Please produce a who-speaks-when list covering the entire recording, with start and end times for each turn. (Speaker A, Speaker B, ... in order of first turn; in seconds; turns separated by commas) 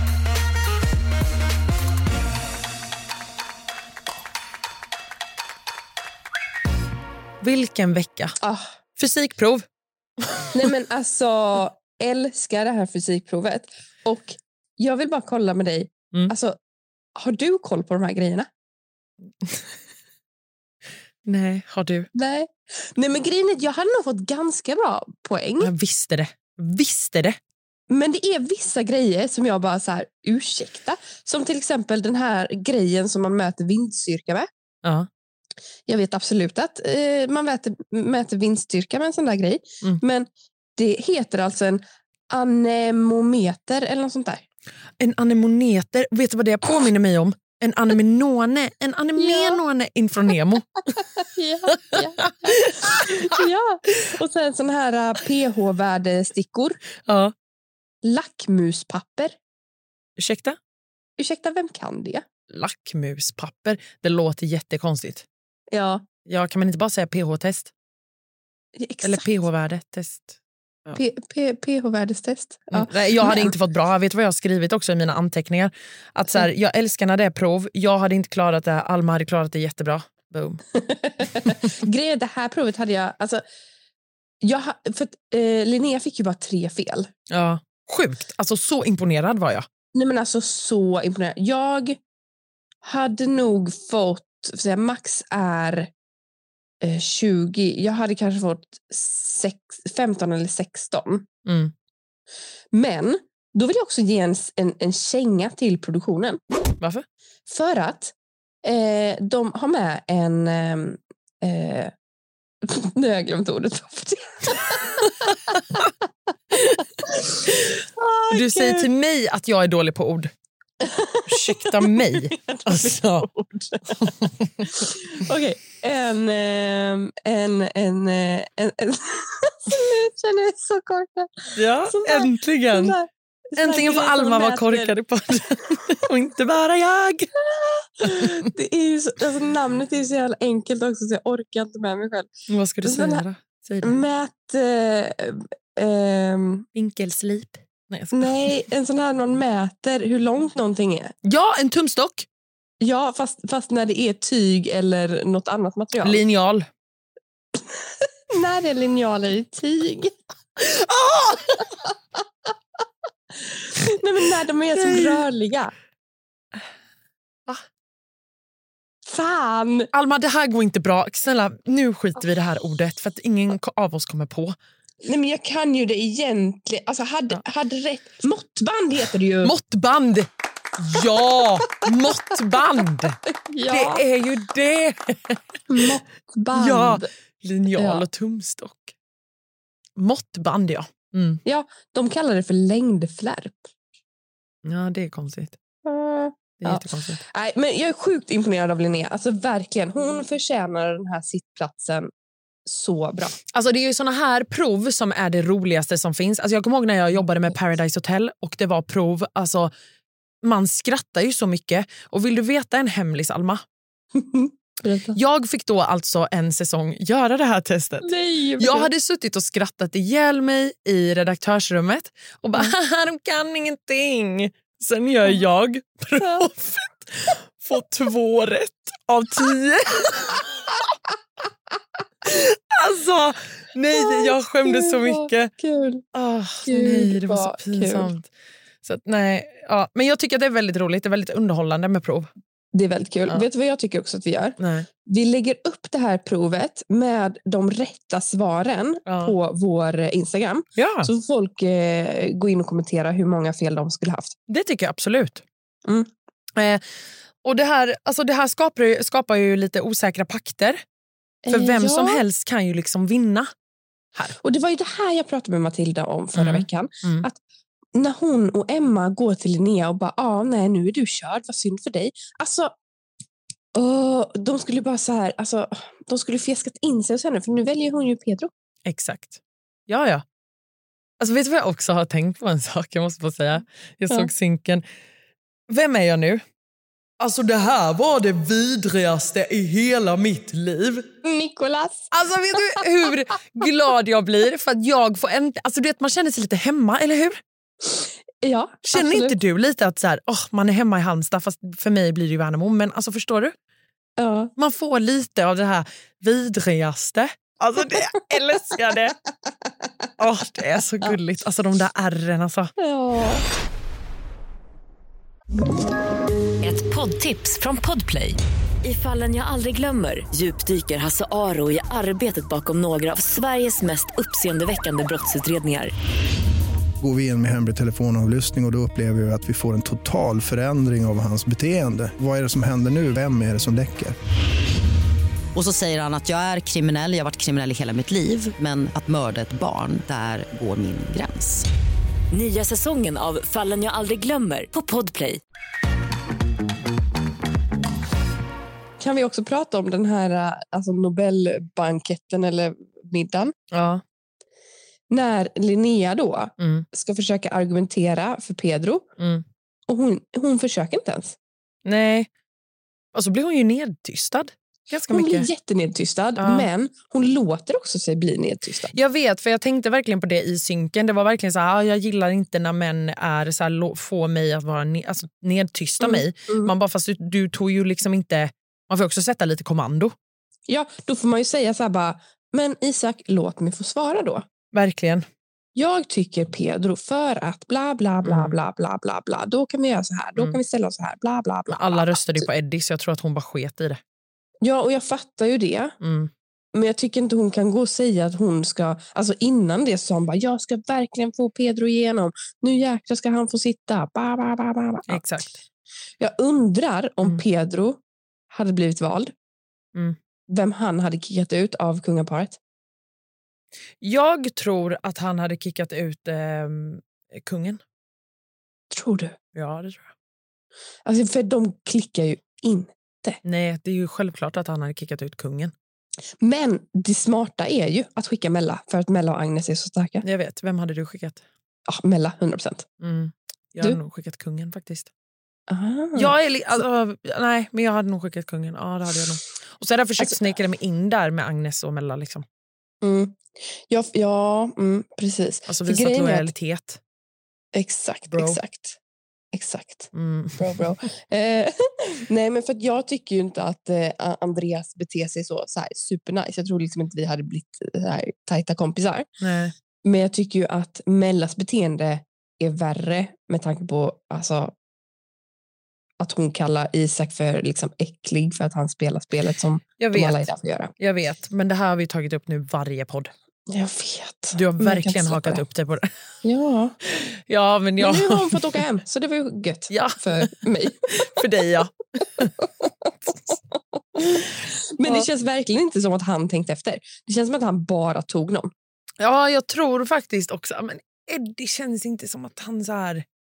Speaker A: 7.4-8.3, Speaker A: 9.0-9.6, Speaker B: 10.5-16.6, Speaker B: 17.1-18.5, Speaker A: 21.2-22.1, Speaker B: 22.1-25.7, Speaker A: 25.6-27.4, Speaker B: 27.9-34.5, Speaker B: 35.9-44.4, Speaker A: 45.0-51.0, Speaker B: 49.2-49.6, Speaker B: 51.2-56.8, Speaker A: 51.9-53.1, Speaker A: 57.0-57.3, Speaker B: 58.0-59.4, Speaker A: 60.2-60.6, Speaker B: 61.2-62.2, Speaker A: 62.5-65.2, Speaker B: 65.7-66.0, Speaker A: 66.2-67.7, Speaker B: 68.8-69.2, Speaker A: 69.0-71.0, Speaker B: 70.9-73.5, Speaker A: 72.7-80.6, Speaker B: 80.7-83.4, Speaker B: 84.4-87.1, Speaker A: 87.3-89.7, Speaker B: 89.9-92.0, Speaker B: 92.8-95.9, Speaker B: 96.8-101.2, Speaker A: 101.5-101.7, Speaker B: 102.7-106.4, Speaker B: 107.5-108.1, Speaker B: 108.6-111.9, Speaker B: 112.6-115.8, Speaker B: 117.0-118.9, Speaker A: 118.3-120.3, Speaker B: 120.8-131.3, Speaker A: 121.3-123.3, Speaker A: 124.0-124.7, Speaker A: 131.5-132.9, Speaker B: 131.8-134.9, Speaker A: 133.6-137.3, Speaker B: 137.4-142.3, Speaker A: 138.1-138.4, Speaker A: 142.5-144.0, Speaker B: 142.8-143.2, Speaker B: 143.8-146.7, Speaker A: 146.8-148.4, Speaker B: 148.1-151.1, Speaker A: 151.2-152.2, Speaker B: 152.8-156.2, Speaker A: 156.0-156.7, Speaker B: 158.3-160.1, Speaker A: 160.6-161.6, Speaker B: 163.5-165.7, Speaker A: 164.7-165.2, Speaker B: 169.1-169.9, Speaker A: 169.9-174.6, Speaker B: 175.0-179.5, Speaker A: 179.4-185.4, Speaker B: 183.4-184.0, Speaker B: 185.7-187.1, Speaker A: 186.5-188.9, Speaker B: 187.7-188.1, Speaker A: 190.0-191.4, Speaker B: 191.4-193.6, Speaker A: 194.6-195.6, Speaker B: 195.8-202.1, Speaker A: 196.6-197.2, Speaker B: 202.7-203.3, Speaker A: 203.5-209.7, Speaker A: 210.4-213.6, Speaker B: 214.2-215.2, Speaker A: 215.1-218.1, Speaker B: 218.0-218.9, Speaker A: 218.6-230.5, Speaker B: 226.2-226.4, Speaker A: 232.2-235.5, Speaker B: 233.9-236.0, Speaker A: 236.1-238.3, Speaker B: 236.6-238.1, Speaker A: 238.8-242.3, Speaker B: 242.7-254.3, Speaker A: 244.6-244.9, Speaker A: 249.1-249.4, Speaker A: 250.8-251.1, Speaker A: 254.5-255.4, Speaker A: 256.6-256.8, Speaker A: 257.4-260.8, Speaker B: 261.4-262.2, Speaker A: 261.5-263.5, Speaker B: 264.3-267.4, Speaker A: 266.3-267.3, Speaker B: 267.9-272.7, Speaker B: 273.7-278.5, Speaker A: 278.9-280.2, Speaker A: 281.2-284.8, Speaker A: 285.7-286.4, Speaker A: 287.2-291.0, Speaker B: 291.2-292.0, Speaker A: 292.1-297.4, Speaker B: 297.8-299.4, Speaker A: 298.9-303.5, Speaker B: 304.2-304.5, Speaker A: 304.6-309.1, Speaker A: 310.2-312.7, Speaker B: 312.8-313.4, Speaker C: 316.6-325.9, Speaker D: 327.0-334.1, Speaker E: 335.5-341.6, Speaker C: 342.3-345.4, Speaker B: 349.0-353.5, Speaker A: 353.7-354.0, Speaker B: 355.1-359.0, Speaker A: 356.6-356.8, Speaker A: 359.2-359.4, Speaker B: 359.9-361.4, Speaker A: 361.8-362.3, Speaker A: 363.1-365.5, Speaker B: 365.1-368.9, Speaker A: 366.4-366.7, Speaker A: 368.9-380.1, Speaker B: 376.0-376.7, Speaker B: 380.7-384.4, Speaker A: 384.7-385.2, Speaker B: 385.7-392.4, Speaker A: 388.2-388.6, Speaker A: 391.7-394.0, Speaker B: 394.6-395.9, Speaker A: 396.0-396.3, Speaker B: 396.7-405.2, Speaker A: 405.1-405.6, Speaker B: 406.2-408.0, Speaker B: 408.5-409.3, Speaker B: 410.5-412.6, Speaker A: 414.0-417.8, Speaker B: 418.9-419.3, Speaker A: 419.5-420.1, Speaker B: 421.1-423.4, Speaker A: 423.4-425.7, Speaker B: 426.4-430.2, Speaker A: 430.2-431.4, Speaker B: 431.9-432.9, Speaker A: 433.0-435.1, Speaker B: 435.7-436.4, Speaker A: 436.1-442.4, Speaker B: 443.0-446.5, Speaker A: 445.7-447.0, Speaker B: 447.7-448.9, Speaker A: 448.3-448.6, Speaker B: 449.5-451.7, Speaker A: 450.1-450.8, Speaker B: 452.3-459.3, Speaker A: 459.4-459.7, Speaker B: 460.0-464.7, Speaker B: 466.2-470.9, Speaker A: 470.0-470.5, Speaker A: 471.0-473.3, Speaker B: 473.7-475.6, Speaker A: 474.5-476.1, Speaker B: 476.4-476.9, Speaker A: 477.1-478.8, Speaker B: 478.0-481.2, Speaker A: 479.9-480.6, Speaker A: 481.2-482.5, Speaker B: 482.4-488.7, Speaker A: 489.2-493.2